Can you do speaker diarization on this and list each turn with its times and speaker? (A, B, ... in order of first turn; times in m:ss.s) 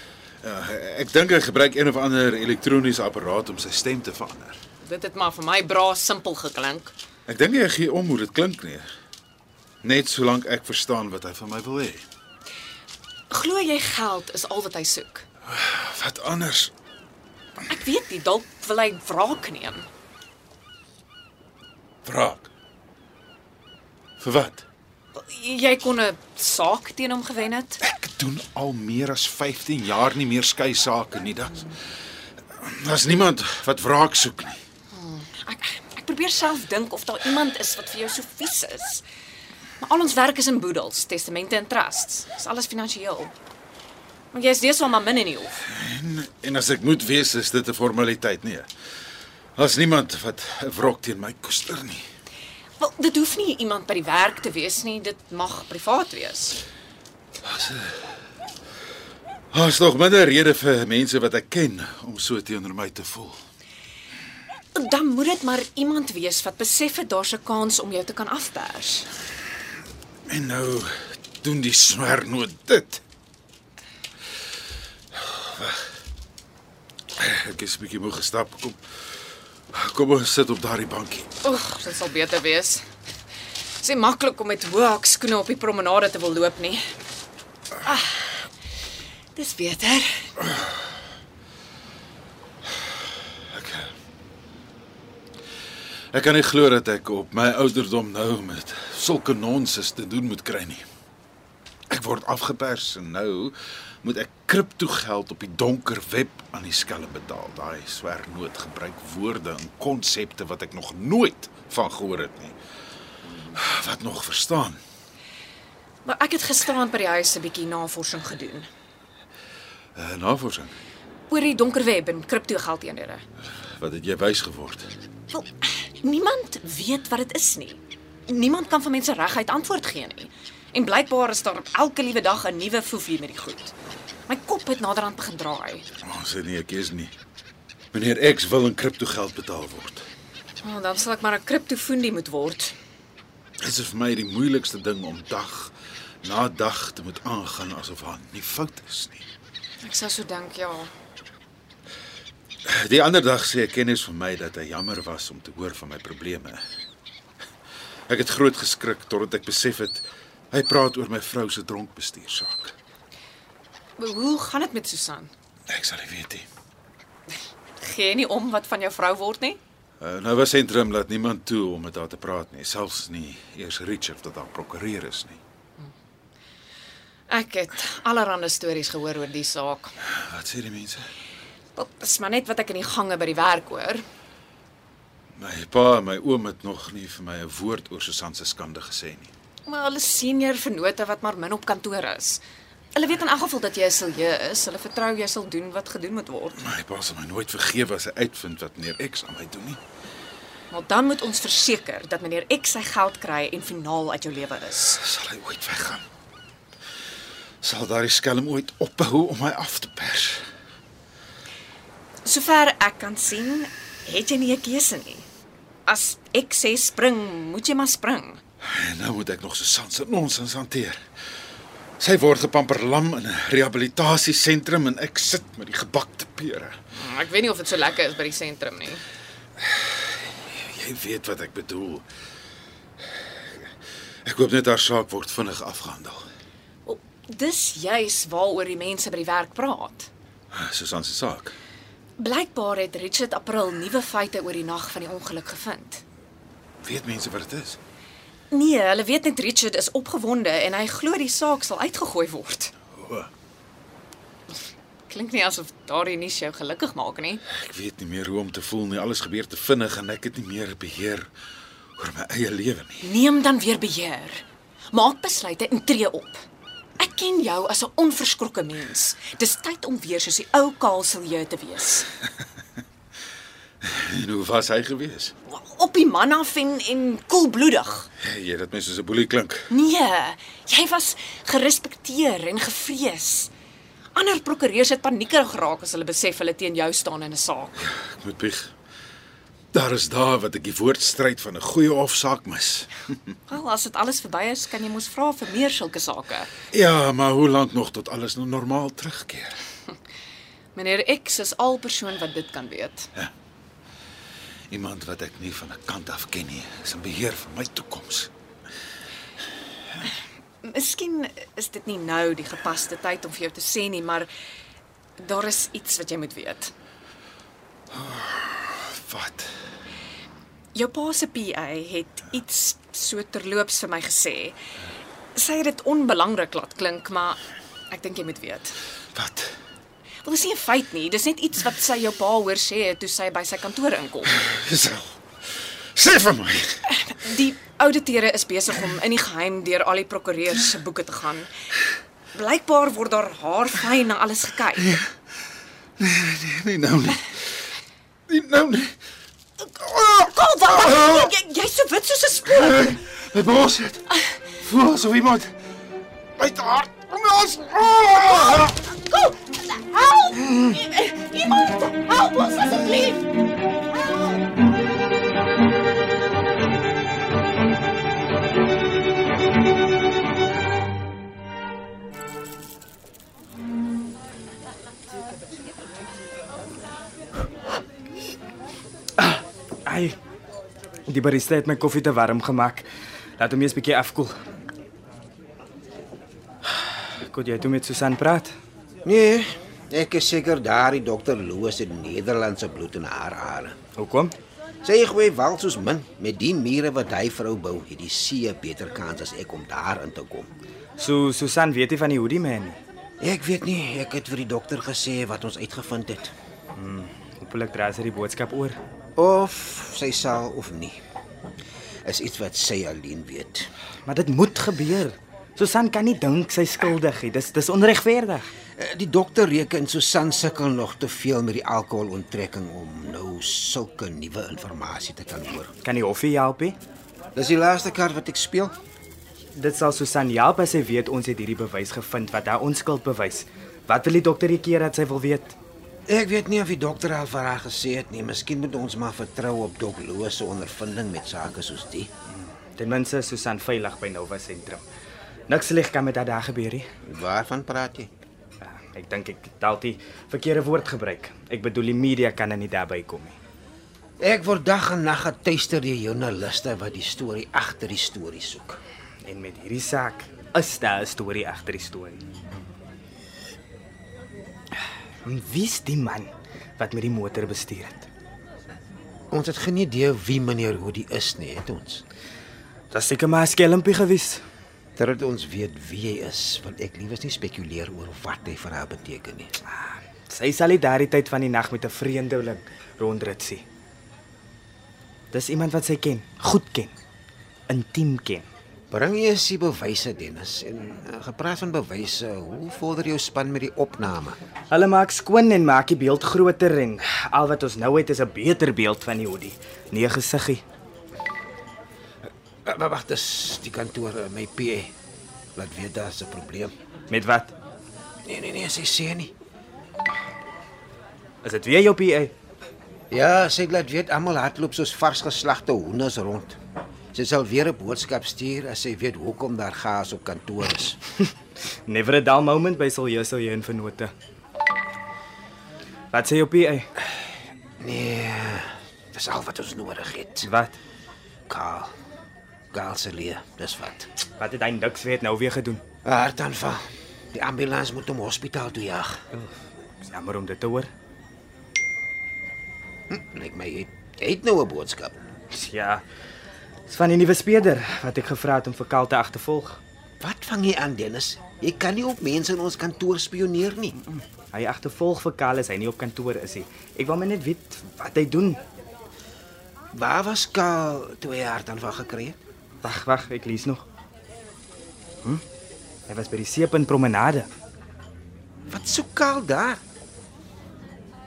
0:00.4-0:04.6 A
0:04.8-0:06.9 B
0:07.3-0:08.9 A
0:09.8-0:12.0 A
0:13.3-0:15.2 B
0:15.5-0:16.7 A
0:17.7-0:19.9 B
0:22.0-0:22.5 A
0:24.2-0:24.6 A
0:25.2-0:27.8 B
0:27.8-0:31.7 A
0:32.6-0:34.6 A
0:34.9-0:39.0 B
0:39.8-0:43.3 B
0:44.3-0:45.6 B
0:45.7-0:48.7 A
0:49.6-0:52.1 A
0:52.8-0:56.6 B
0:57.4-0:58.1 A
0:59.5-1:03.4 A
1:04.8-1:09.1 B
1:10.3-1:13.0 A
1:15.2-1:15.8 A
1:17.2-1:18.8 A
1:19.7-1:21.3 A
1:21.4-1:22.8 B
1:23.8-1:26.9 B
1:27.8-1:28.4 B
1:29.4-1:30.2 B
1:33.5-1:33.9 A
1:36.1-1:40.8 A
1:41.9-1:52.6 A
1:53.5-1:54.8 A
1:56.0-1:58.7 B
2:00.0-2:00.8 A
2:01.3-2:03.2 B
2:03.8-2:04.9 A
2:05.3-2:13.7 B
2:14.3-2:15.9 B
2:16.0-2:17.1 A
2:17.9-2:20.0 A
2:20.6-2:22.8 B
2:23.6-2:29.3 A
2:29.8-2:30.9 B
2:32.7-2:36.6 A
2:38.1-2:42.7 A
2:44.0-2:45.3 B
2:45.7-2:46.5 A
2:47.8-2:49.6 B
2:50.0-2:55.4 A
2:57.3-2:59.9 B
3:00.1-3:01.1 A
3:01.8-3:04.0 B
3:05.4-3:09.3 A
3:09.7-3:12.4 B
3:13.0-3:16.6 B
3:16.6-3:19.8 A
3:20.7-3:25.0 B
3:25.0-3:26.0 A
3:27.6-3:30.4 A
3:32.3-3:35.3 B
3:35.9-3:38.4 B
3:38.6-3:41.0 A
3:42.0-3:46.8 A
3:47.0-3:49.0 B
3:49.6-3:49.9 A
3:50.5-3:52.0 A
3:54.2-3:56.2 A
3:56.9-4:00.1 B
4:00.5-4:01.6 A
4:02.2-4:06.0 B
4:06.8-4:07.8 A
4:08.5-4:12.7 B
4:13.0-4:13.3 A
4:15.1-4:17.4 B
4:17.5-4:21.3 A
4:22.0-4:23.1 A
4:23.0-4:26.4 B
4:27.0-4:32.1 B
4:33.8-4:35.3 A
4:35.5-4:38.1 B
4:38.2-4:39.7 A
4:39.7-4:43.5 B
4:44.2-4:47.8 B
4:47.8-4:48.7 A
4:49.7-4:53.3 A
4:53.5-4:56.5 B
4:56.7-4:59.5 A
5:00.8-5:03.1 B
5:04.7-5:08.3 A
5:10.6-5:14.3 B
5:15.2-5:16.7 B
5:17.9-5:19.5 A
5:20.8-5:24.6 B
5:25.4-5:28.8 B
5:29.2-5:29.5 A
5:30.2-5:34.3 B
5:34.4-5:35.1 A
5:36.0-5:36.8 A
5:36.9-5:41.5 B
5:42.4-5:45.0 B
5:46.0-5:47.3 A
5:48.3-5:49.0 A
5:49.8-5:50.3 A
5:50.2-5:52.9 B
5:52.6-5:54.0 A
5:54.6-5:55.5 A
5:56.4-5:58.7 A
5:58.5-6:03.2 B
6:19.2-6:20.2 C
6:21.1-6:22.9 C
6:23.4-6:24.4 C
6:27.0-6:28.5 C
6:29.0-6:33.8 D
6:34.0-6:34.3 C
6:34.8-6:40.5 D
6:41.0-6:42.8 C
6:43.2-6:46.3 D
6:46.8-6:48.8 C
6:49.2-6:51.0 D
6:52.0-6:53.7 D
6:54.1-6:58.5 C
6:58.8-7:05.7 D
7:05.8-7:06.8 C
7:07.4-7:08.7 D
7:09.6-7:15.6 C
7:16.1-7:22.1 D
7:22.3-7:24.8 C
7:25.5-7:26.9 C
7:27.1-7:28.1 D
7:28.6-7:33.4 C
7:34.2-7:38.8 D
7:39.2-7:42.2 C
7:45.2-7:48.1 C
7:49.3-7:52.0 D
7:52.9-7:54.4 C
7:55.0-7:59.5 D
7:59.7-8:03.6 C
8:05.3-8:06.9 C
8:07.7-8:08.5 C
8:08.9-8:14.4 D
8:14.7-8:20.6 C
8:22.7-8:24.9 D
8:25.6-8:26.7 D
8:27.1-8:27.5 C
8:28.3-8:29.3 D
8:31.4-8:32.3 C
8:33.1-8:36.6 D
8:37.1-8:41.0 D
8:41.9-8:44.1 C
8:46.1-8:46.9 C
8:47.8-8:50.5 D
8:50.4-8:50.8 C
8:51.5-8:51.9 D
8:52.7-8:54.1 D
8:54.4-8:55.8 C
8:56.0-8:59.2 D
9:00.0-9:00.9 C
9:03.1-9:05.2 D
9:05.5-9:06.0 C
9:06.9-9:09.8 C
9:10.2-9:14.0 D
9:14.5-9:18.6 C
9:19.9-9:22.4 D
9:22.8-9:23.9 C
9:26.1-9:27.5 C
9:28.7-9:29.8 D